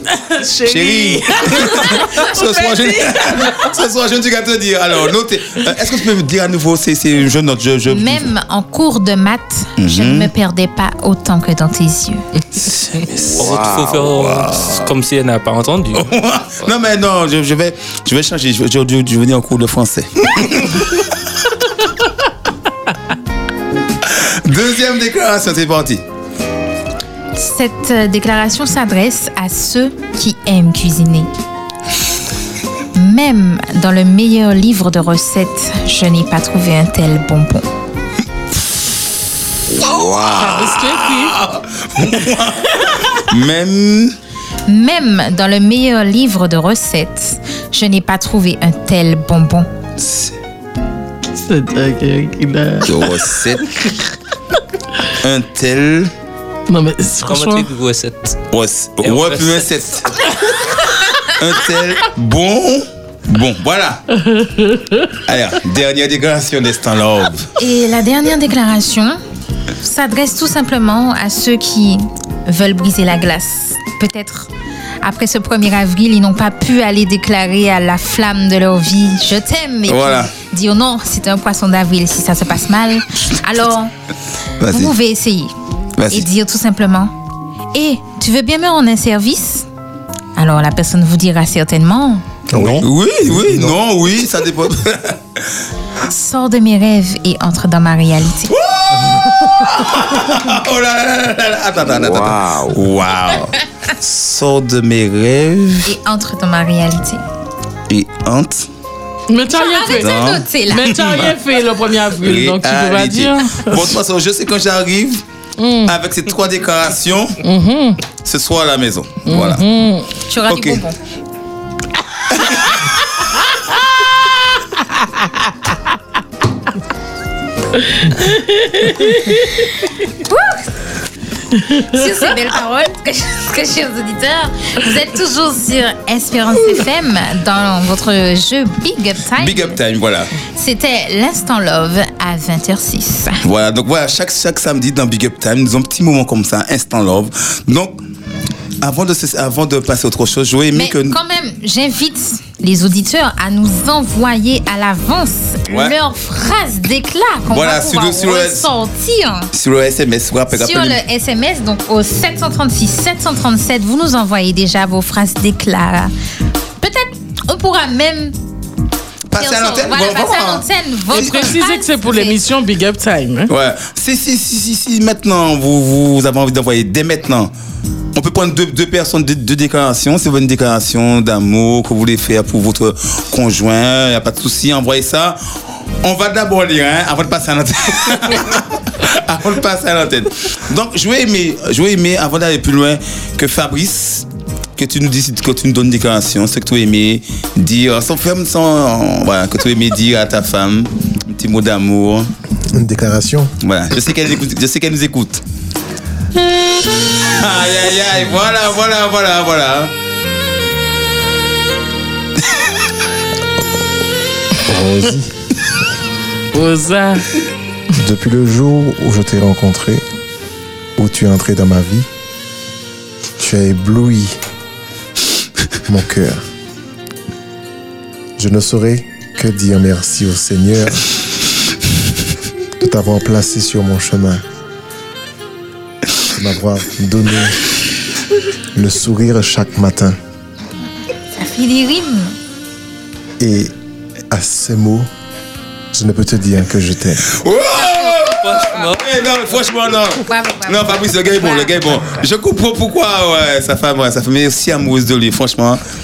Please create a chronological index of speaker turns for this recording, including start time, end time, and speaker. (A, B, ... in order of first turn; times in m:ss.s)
0:00.1-0:03.6 A
0:00.7-0:08.3 B
0:07.9-0:12.2 C
0:09.8-0:10.3 B
0:12.8-0:16.1 D
0:13.4-0:13.6 B
0:14.4-0:14.8 B
0:15.9-0:21.0 B
0:24.1-0:26.0 B
0:27.4-0:31.3 C
0:32.9-0:37.7 C
0:39.7-0:44.2 B
0:40.2-0:41.4 A
0:44.7-0:49.7 C
0:50.0-0:50.4 B
0:51.3-0:53.2 A
0:52.9-0:53.7 B
0:55.2-0:56.1 B
0:56.7-0:57.7 A
0:57.3-0:58.4 D
0:58.5-1:00.2 B
0:59.0-0:59.7 D
1:01.2-1:04.0 B
1:04.2-1:05.1 A
1:05.3-1:07.5 B
1:07.6-1:09.2 C
1:09.8-1:14.5 C
1:15.0-1:23.9 C
1:19.9-1:20.3 B
1:24.6-1:24.9 B
1:24.7-1:25.5 C
1:26.0-1:26.3 B
1:26.1-1:27.1 C
1:27.7-1:29.7 C
1:30.4-1:32.2 C
1:32.5-1:33.8 E
1:32.6-1:35.2 B
1:36.1-1:38.5 C
1:38.5-1:45.9 B
1:45.8-1:47.2 C
1:47.9-1:48.7 B
1:49.3-1:54.0 A
1:49.5-1:51.0 C
1:50.0-1:51.3 B
1:52.2-1:55.2 B
1:55.6-1:56.0 A
1:55.9-1:57.4 B
1:57.4-1:58.0 A
1:58.2-1:59.6 B
1:59.3-2:00.1 A
2:00.3-2:01.0 C
2:00.5-2:00.8 B
2:02.3-2:02.7 B
2:08.0-2:09.5 A
2:10.2-2:10.7 C
2:11.9-2:19.8 C
2:19.4-2:20.3 B
2:20.5-2:23.4 C
2:23.4-2:28.0 B
2:28.8-2:31.2 B
2:30.7-2:39.5 C
2:35.7-2:36.0 B
2:37.5-2:38.7 B
2:39.5-2:41.0 B
2:40.5-2:46.1 C
2:46.8-2:48.4 C
2:49.3-2:51.5 B
2:49.4-2:52.4 C
2:51.1-2:53.5 A
2:53.5-2:57.5 B
2:58.1-3:05.4 B
3:06.0-3:14.3 B
3:14.8-3:22.3 B
3:22.7-3:23.5 E
3:23.6-3:25.4 B
3:27.1-3:29.9 B
3:34.6-3:35.3 E
3:36.5-3:37.3 A
3:38.0-3:40.0 E
3:41.0-3:42.1 E
3:43.4-3:44.4 E
3:45.9-3:46.4 E
3:48.4-3:51.1 E
3:52.8-3:54.4 E
3:56.3-3:57.6 E
3:58.7-4:00.2 E
4:01.4-4:02.3 C
4:03.4-4:03.7 E
4:04.3-4:05.1 E
4:05.9-4:07.2 E
4:07.3-4:15.8 B
4:07.8-4:08.2 C
4:08.4-4:09.0 D
4:10.2-4:11.9 C